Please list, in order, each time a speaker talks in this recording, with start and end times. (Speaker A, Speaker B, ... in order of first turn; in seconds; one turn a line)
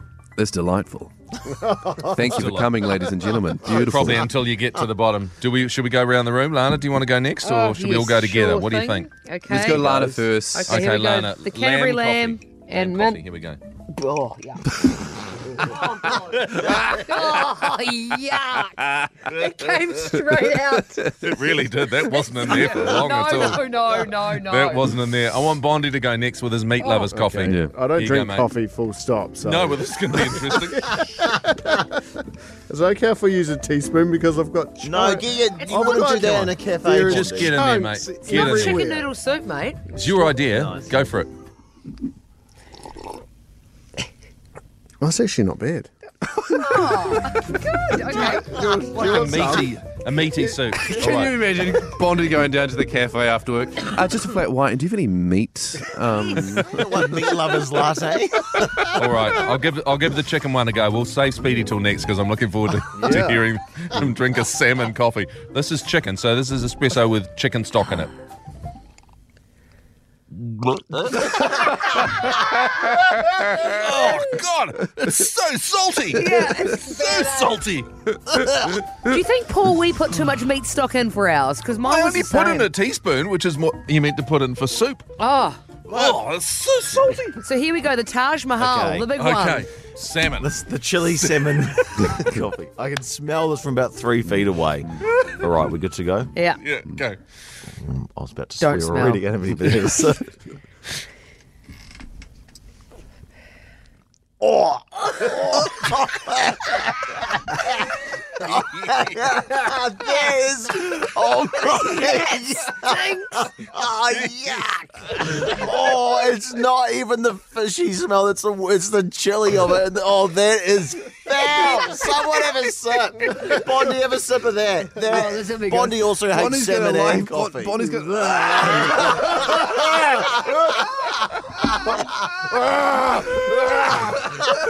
Speaker A: 0.4-1.1
Speaker B: 1.5-2.2
Speaker A: 2.1-4.3
Speaker C: 2.3-2.7
Speaker C: 3.8-9.1
Speaker D: 7.4-13.2
Speaker A: 9.5-10.9
Speaker C: 10.7-13.6
Speaker D: 13.9-14.8
Speaker D: 15.6-21.1
Speaker C: 21.2-23.6
Speaker D: 22.3-24.9
Speaker C: 24.3-28.5
Speaker D: 26.8-27.1
Speaker B: 27.1-32.0
Speaker C: 29.4-31.0
Speaker B: 32.7-39.1
Speaker E: 34.8-37.5
Speaker C: 36.2-36.5
Speaker C: 37.0-38.8
Speaker D: 38.3-39.8
Speaker C: 39.9-41.3
Speaker E: 40.5-41.0
Speaker B: 45.0-45.9
Speaker D: 46.5-48.5
Speaker B: 48.1-49.7
Speaker E: 48.3-48.8
Speaker C: 48.9-51.4
Speaker A: 50.8-56.8
Speaker E: 56.5-59.0
Speaker C: 59.0-68.1
Speaker B: 63.0-63.4
Speaker E: 70.5-71.2
Speaker C: 72.9-78.1
Speaker D: 76.1-77.6
Speaker D: 79.0-82.7
Speaker C: 81.8-85.1
Speaker D: 85.2-85.6
Speaker C: 85.9-87.4
Speaker E: 85.9-86.2
Speaker D: 87.4-89.7
Speaker E: 88.6-89.1
Speaker C: 89.2-90.6
Speaker E: 90.4-96.3
Speaker C: 96.6-97.2
Speaker E: 97.7-100.3
Speaker D: 98.6-99.2
Speaker E: 104.4-107.9
Speaker E: 108.4-131.1
Speaker D: 112.8-113.4
Speaker D: 125.1-126.0
Speaker A: 126.3-129.8
Speaker B: 132.3-134.3